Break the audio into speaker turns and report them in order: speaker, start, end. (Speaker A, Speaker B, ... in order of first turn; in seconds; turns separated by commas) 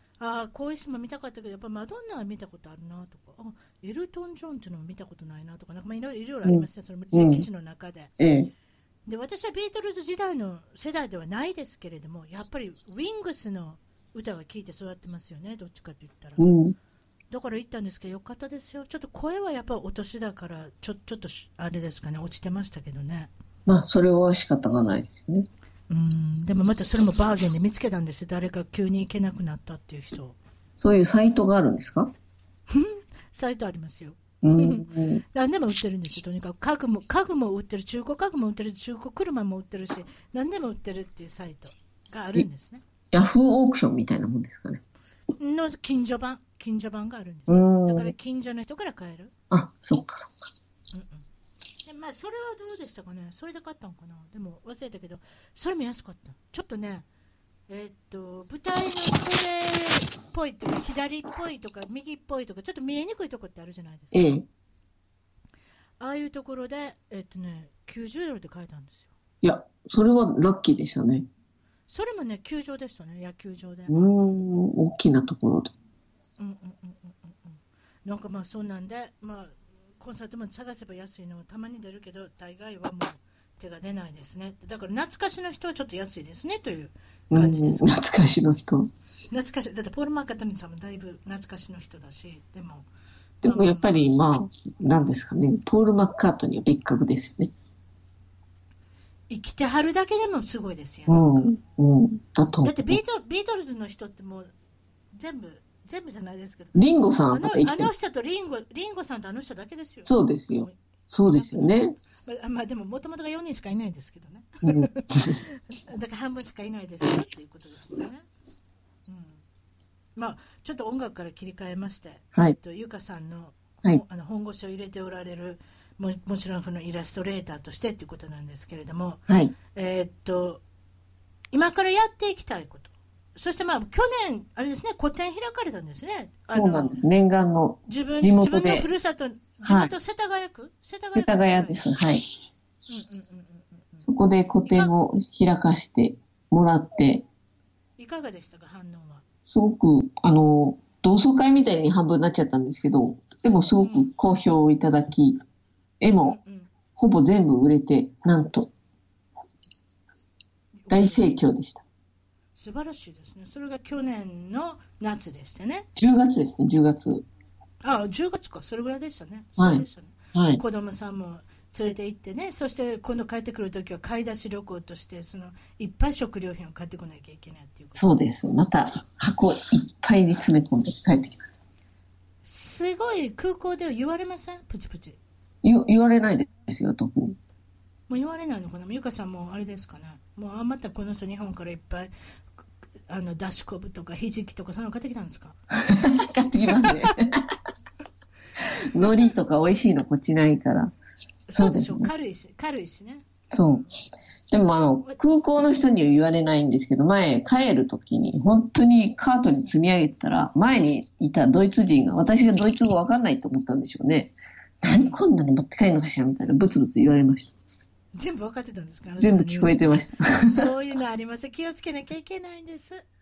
Speaker A: 0.2-8.1, Speaker B: 6.4-7.5, Speaker B: 8.2-8.5, Speaker A: 9.1-16.4, Speaker B: 16.4-16.8, Speaker A: 17.3-23.3, Speaker B: 23.7-25.5, Speaker A: 25.9-30.4, Speaker B: 30.8-32.1, Speaker A: 32.7-42.8, Speaker B: 34.4-35.2, Speaker B: 43.1-44.8, Speaker A: 45.4-49.3, Speaker B: 47.5-48.1, Speaker B: 49.5-50.4, Speaker A: 50.9-51.2, Speaker A: 51.9-57.1, Speaker A: 57.7-64.4, Speaker B: 64.1-64.5, Speaker A: 66.0-69.1, Speaker B: 69.4-71.3, Speaker A: 71.9-74.5, Speaker B: 73.9-75.7, Speaker A: 76.4-88.0, Speaker B: 87.3-88.9, Speaker A: 89.3-92.9, Speaker A: 93.4-94.0, Speaker B: 93.4-97.5, Speaker A: 99.3-101.5, Speaker B: 101.1-103.0, Speaker A: 102.6-104.5, Speaker A: 105.1-106.8, Speaker B: 106.8-107.9, Speaker A: 107.3-110.8, Speaker B: 110.1-112.0, Speaker A: 111.3-118.3, Speaker B: 114.7-115.4, Speaker A: 119.1-119.4, Speaker A: 120.2-129.2, Speaker B: 129.3-129.6, Speaker A: 129.7-130.6, Speaker A: 131.5-137.0, Speaker B: 136.5-138.9, Speaker A: 137.9-141.9, Speaker B: 139.6-139.9, Speaker B: 141.2-142.2, Speaker A: 142.9-144.1, Speaker B: 144.1-147.3, Speaker A: 144.6-144.9, Speaker A: 148.0-149.2, Speaker B: 149.5-155.4, Speaker A: 153.8-154.1, Speaker B: 156.0-156.4, Speaker A: 156.2-156.7, Speaker B: 157.0-158.7, Speaker A: 160.8-161.3, Speaker B: 160.9-161.8, Speaker A: 162.6-165.9, Speaker B: 166.0-167.2, Speaker A: 167.8-178.2, Speaker B: 169.6-170.6, Speaker B: 178.0-181.4, Speaker A: 182.4-185.2, Speaker B: 185.6-187.4, Speaker A: 188.1-192.1, Speaker A: 193.1-195.6, Speaker B: 195.8-197.5, Speaker A: 196.5-197.2, Speaker B: 198.6-200.9, Speaker A: 199.0-199.3, Speaker A: 201.5-203.9, Speaker B: 201.6-202.1, Speaker B: 203.5-203.9, Speaker B: 204.5-217.5, Speaker A: 214.9-215.2, Speaker A: 218.1-223.0, Speaker B: 219.2-220.7